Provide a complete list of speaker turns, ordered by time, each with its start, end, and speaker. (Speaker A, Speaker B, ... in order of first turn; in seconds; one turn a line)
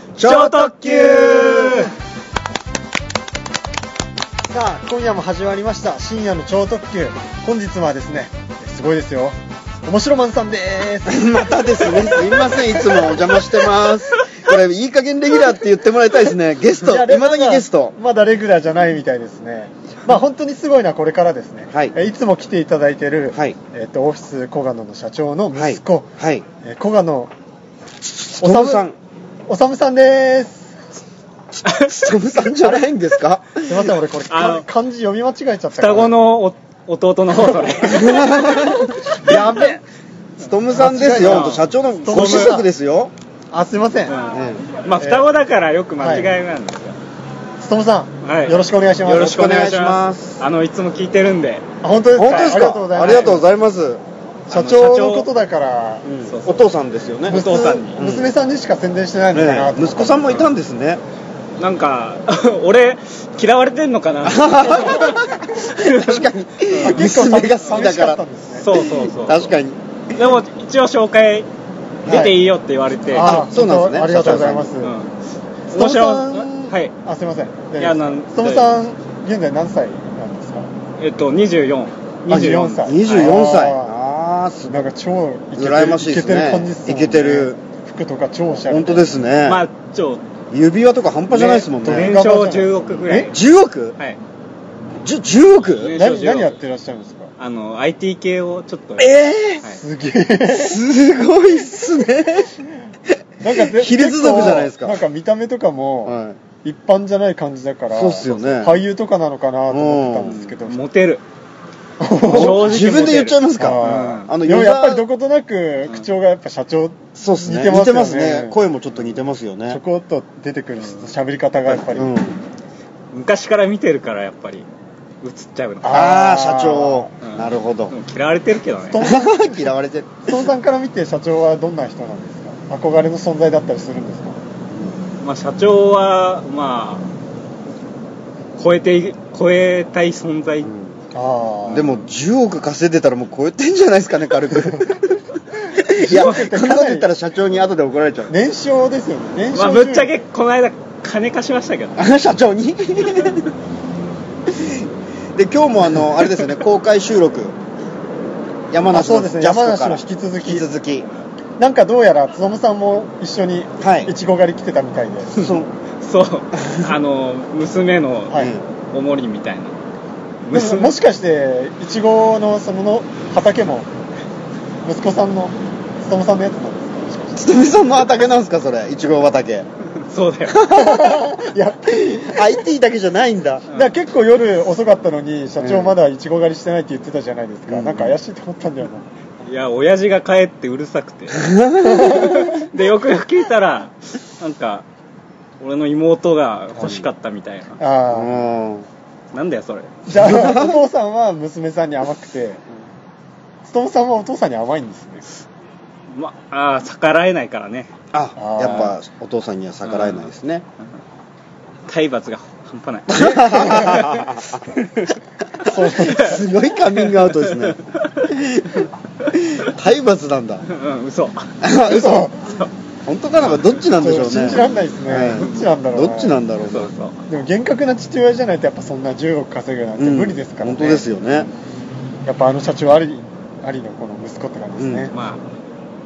Speaker A: 0.1-1.9
Speaker B: 0.2-1.9
Speaker C: 4.5-13.1
Speaker A: 11.1-17.9
Speaker C: 16.8-27.3
Speaker A: 25.5-26.4
Speaker A: 28.3-28.9
Speaker C: 28.4-28.9
Speaker C: 29.5-30.7
Speaker A: 31.6-33.9
Speaker C: 32.3-32.9
Speaker C: 33.5-36.1
Speaker B: 34.3-34.6
Speaker B: 35.7-38.2
Speaker C: 37.5-38.2
Speaker A: 37.8-39.4
Speaker C: 39.1-39.8
Speaker A: 40.4-43.1
Speaker C: 40.7-42.7
Speaker B: 41.2-42.6
Speaker C: 43.5-44.1
Speaker B: 44.1-47.0
Speaker A: 44.3-44.6
Speaker C: 45.0-45.3
Speaker C: 46.0-46.3
Speaker C: 47.6-49.5
Speaker B: 48.2-51.6
Speaker A: 49.0-50.4
Speaker C: 51.8-53.4
Speaker A: 52.1-54.0
Speaker B: 52.2-53.4
Speaker B: 54.5-55.3
Speaker C: 54.5-56.1
Speaker A: 56.0-57.4
Speaker B: 56.2-56.7
Speaker B: 57.2-58.0
Speaker C: 57.3-60.4
Speaker A: 57.9-58.3
Speaker A: 59.3-61.0
Speaker B: 61.6-66.3
Speaker A: 64.2-68.2
Speaker C: 66.7-68.7
Speaker B: 66.8-67.1
Speaker B: 68.6-69.5
Speaker A: 68.7-70.3
Speaker B: 70.1-71.5
Speaker A: 72.0-72.4
Speaker B: 72.0-73.5
Speaker A: 73.1-74.7
Speaker C: 73.1-74.9
Speaker B: 74.8-75.1
Speaker C: 75.7-80.7
Speaker B: 75.7-76.9
Speaker B: 77.8-78.8
Speaker B: 81.0-83.4
Speaker A: 82.3-84.9
Speaker C: 82.3-84.0
Speaker C: 84.7-89.2
Speaker A: 85.5-87.6
Speaker A: 88.6-89.7
Speaker B: 89.4-90.2
Speaker A: 90.5-92.1
Speaker B: 91.3-93.4
Speaker C: 91.9-93.3
Speaker A: 93.0-93.9
Speaker A: 95.0-95.9
Speaker B: 95.7-96.6
Speaker C: 96.0-97.3
Speaker B: 97.4-99.8
Speaker A: 99.0-99.6
Speaker C: 99.7-100.8
Speaker A: 100.5-102.5
Speaker C: 103.4-110.8
Speaker A: 103.5-105.0
Speaker A: 106.0-106.4
Speaker A: 107.9-108.8
Speaker B: 108.2-108.7
Speaker A: 109.7-110.5
Speaker B: 110.4-111.2
Speaker C: 112.0-113.1
Speaker B: 112.2-114.3
Speaker A: 112.3-115.0
Speaker C: 113.6-118.6
Speaker A: 117.2-119.8
Speaker C: 119.7-122.1
Speaker A: 121.7-122.4
Speaker B: 123.1-124.7
Speaker B: 125.2-126.0
Speaker C: 125.8-127.1
Speaker A: 125.8-127.9
Speaker B: 127.2-129.1
Speaker C: 128.9-129.7
Speaker A: 129.0-130.5
Speaker C: 130.2-134.4
Speaker A: 134.7-135.0
Speaker B: 135.2-137.1
Speaker B: 138.6-140.7
Speaker A: 140.6-140.9
Speaker C: 141.1-142.0
Speaker A: 141.7-145.1
Speaker C: 145.8-147.1
Speaker A: 145.8-148.3
Speaker C: 148.3-150.2
Speaker B: 149.5-152.1
Speaker A: 151.9-153.4
Speaker A: 154.5-157.6
Speaker A: 158.7-161.1
Speaker C: 158.9-160.7
Speaker C: 161.6-165.5
Speaker A: 163.8-164.1
Speaker A: 165.3-165.7
Speaker B: 166.0-169.7
Speaker A: 168.3-168.6
Speaker B: 170.4-170.9
Speaker C: 170.5-173.9
Speaker C: 174.8-177.4
Speaker A: 177.4-179.7
Speaker B: 180.1-180.6
Speaker A: 180.5-181.3
Speaker C: 180.7-182.6
Speaker A: 182.2-183.6
Speaker C: 183.7-189.1
Speaker A: 185.6-186.0
Speaker A: 187.7-188.2
Speaker B: 189.4-194.8
Speaker A: 191.4-192.1
Speaker C: 191.8-192.4
Speaker B: 195.6-197.8
Speaker A: 196.8-197.1
Speaker C: 197.8-198.4
Speaker A: 198.1-198.9
Speaker B: 199.3-200.1
Speaker C: 200.1-202.6
Speaker A: 200.2-200.8
Speaker C: 203.6-205.3
Speaker B: 206.1-207.9
Speaker A: 208.1-210.6
Speaker C: 208.4-209.0
Speaker B: 209.8-210.3
Speaker B: 211.9-214.0
Speaker A: 213.1-214.6
Speaker C: 213.5-214.2
Speaker A: 215.6-218.9
Speaker C: 215.6-216.4
Speaker B: 216.9-218.3
Speaker B: 219.2-219.7
Speaker A: 219.5-220.7
Speaker B: 220.7-221.5
Speaker A: 221.6-222.4
Speaker C: 221.8-222.6
Speaker A: 223.1-226.9
Speaker C: 224.0-226.4
Speaker B: 226.6-227.2
Speaker C: 227.3-231.1
Speaker A: 230.0-231.5
Speaker C: 232.2-235.1
Speaker A: 234.8-235.1
Speaker B: 235.1-235.4